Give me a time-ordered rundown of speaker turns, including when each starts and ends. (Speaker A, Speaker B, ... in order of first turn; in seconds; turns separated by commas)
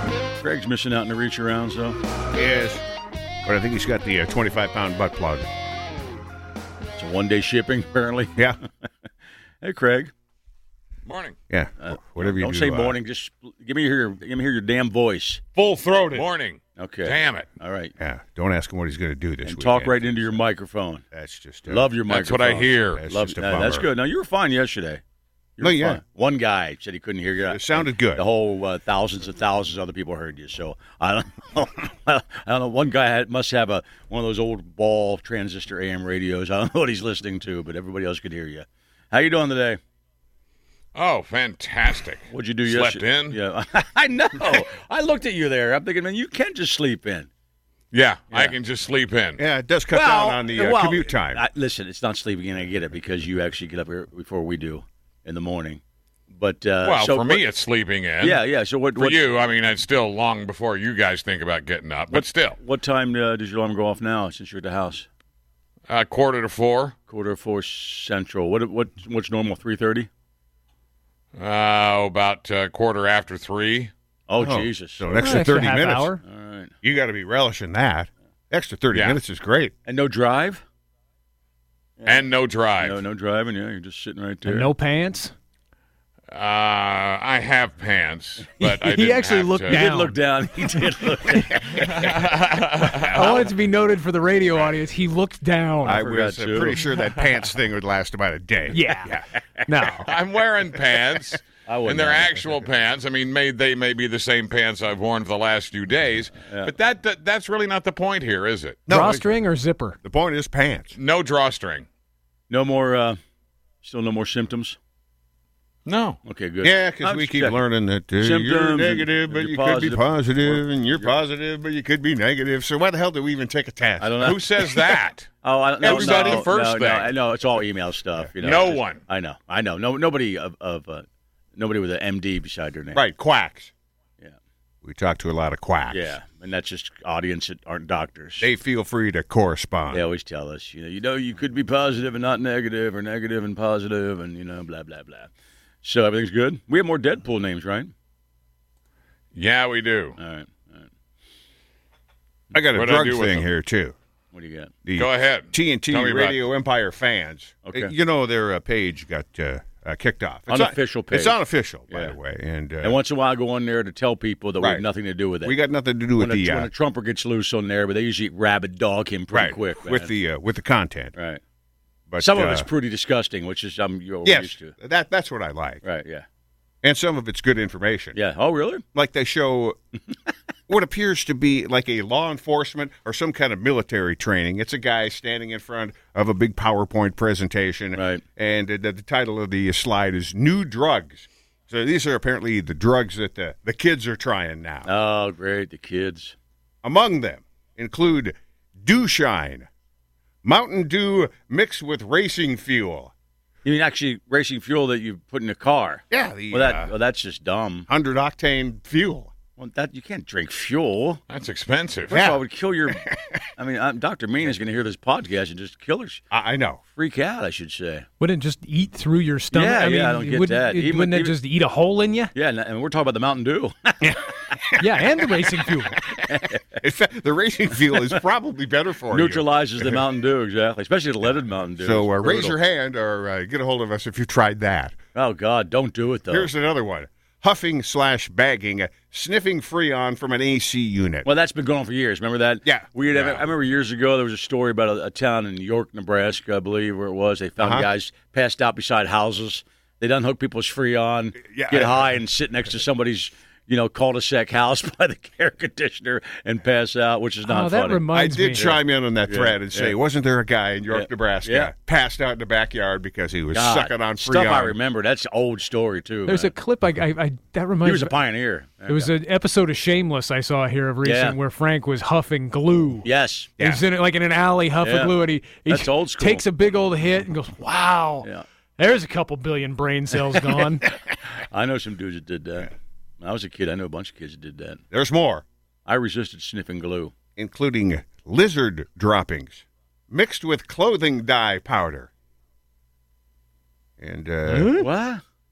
Speaker A: 0.4-2.0, Speaker B: 2.3-2.8, Speaker B: 3.5-5.5, Speaker A: 7.0-8.5, Speaker A: 9.6-10.1, Speaker C: 11.1-11.4, Speaker B: 11.5-13.0, Speaker A: 11.8-15.4, Speaker B: 15.6-16.3, Speaker C: 16.1-17.5, Speaker A: 16.8-17.9, Speaker B: 18.0-20.4, Speaker A: 19.4-21.1, Speaker B: 21.1-21.9, Speaker A: 21.7-25.0, Speaker C: 22.1-23.0, Speaker B: 22.9-23.9, Speaker A: 25.6-39.8, Speaker B: 25.6-26.0, Speaker B: 27.4-28.2, Speaker C: 41.0-43.4, Speaker A: 42.3-47.3, Speaker C: 47.9-49.4, Speaker B: 49.4-51.4, Speaker A: 49.9-57.5, Speaker C: 56.8-58.4, Speaker A: 58.2-59.3, Speaker C: 59.0-62.6, Speaker A: 62.1-65.1, Speaker C: 65.9-67.0, Speaker A: 67.1-70.1, Speaker C: 71.4-73.9, Speaker A: 74.3-75.5, Speaker B: 74.4-76.2, Speaker D: 75.2-76.2, Speaker A: 76.2-76.7, Speaker B: 76.8-79.7, Speaker C: 78.9-79.2, Speaker A: 79.9-80.6, Speaker A: 82.0-84.7, Speaker C: 82.1-83.0, Speaker D: 84.5-85.3, Speaker C: 86.3-89.8, Speaker D: 88.6-91.8, Speaker A: 89.7-92.1, Speaker C: 91.7-93.5, Speaker D: 93.0-96.0, Speaker B: 95.8-99.3, Speaker A: 95.8-96.8, Speaker D: 98.7-100.1, Speaker C: 100.0-108.8, Speaker A: 101.7-102.5, Speaker A: 106.4-106.7, Speaker B: 108.9-109.3, Speaker D: 108.9-110.0, Speaker B: 110.0-111.0, Speaker C: 111.0-111.9, Speaker A: 112.5-113.2, Speaker A: 113.8-114.8, Speaker C: 115.9-116.2, Speaker A: 116.2-117.6, Speaker B: 116.6-124.4, Speaker A: 118.2-121.1, Speaker A: 124.0-124.4, Speaker C: 124.2-125.3, Speaker A: 125.4-131.1, Speaker B: 125.8-126.5, Speaker C: 125.8-127.1, Speaker C: 128.4-129.0, Speaker A: 131.6-133.0, Speaker B: 132.9-133.7, Speaker B: 134.8-136.2, Speaker A: 135.9-138.5, Speaker B: 138.4-140.1, Speaker A: 139.9-145.3, Speaker A: 145.8-147.9, Speaker C: 149.3-150.2, Speaker A: 150.2-150.9, Speaker B: 152.5-153.9, Speaker C: 152.7-153.5, Speaker A: 154.3-154.7, Speaker B: 154.8-163.0, Speaker C: 155.0-156.4, Speaker A: 157.7-157.9, Speaker A: 160.5-161.4, Speaker A: 162.8-165.6, Speaker B: 164.6-164.8, Speaker B: 165.4-166.7, Speaker A: 166.2-170.1, Speaker B: 169.3-171.1, Speaker A: 171.2-171.4, Speaker B: 172.1-172.7, Speaker A: 172.2-174.8, Speaker B: 174.2-175.8, Speaker A: 175.8-176.2, Speaker B: 176.8-178.2, Speaker A: 178.2-178.8, Speaker B: 178.9-179.8, Speaker B: 180.7-194.9, Speaker A: 187.9-188.2, Speaker A: 194.8-196.3, Speaker B: 196.8-199.7, Speaker B: 200.4-203.1, Speaker A: 203.7-207.9, Speaker B: 206.1-206.9, Speaker B: 207.9-209.3, Speaker A: 209.6-211.2, Speaker C: 211.3-212.2, Speaker A: 212.1-216.2, Speaker B: 212.1-213.3, Speaker B: 216.3-216.8, Speaker A: 217.0-218.1, Speaker D: 218.2-222.3, Speaker A: 219.5-221.4, Speaker A: 222.3-224.1, Speaker B: 224.0-230.0, Speaker D: 224.8-226.0, Speaker A: 226.3-226.6, Speaker A: 229.1-232.6, Speaker B: 231.8-235.0, Speaker A: 235.2-236.5, Speaker B: 236.3-241.3, Speaker A: 241.2-260.0, Speaker B: 242.7-243.3, Speaker B: 247.6-247.9, Speaker B: 251.4-252.1, Speaker D: 257.5-258.7, Speaker B: 258.1-264.8, Speaker A: 260.9-261.7, Speaker A: 263.5-266.5, Speaker D: 266.3-268.1, Speaker A: 267.8-269.1, Speaker D: 268.9-273.1, Speaker A: 271.0-271.4, Speaker A: 273.0-273.6, Speaker B: 273.6-273.8, Speaker D: 273.6-280.9, Speaker A: 274.8-276.4, Speaker A: 280.9-284.8, Speaker B: 284.9-285.4, Speaker A: 285.9-287.1, Speaker B: 287.4-292.1, Speaker B: 294.0-294.8, Speaker D: 294.5-294.9, Speaker A: 294.8-295.2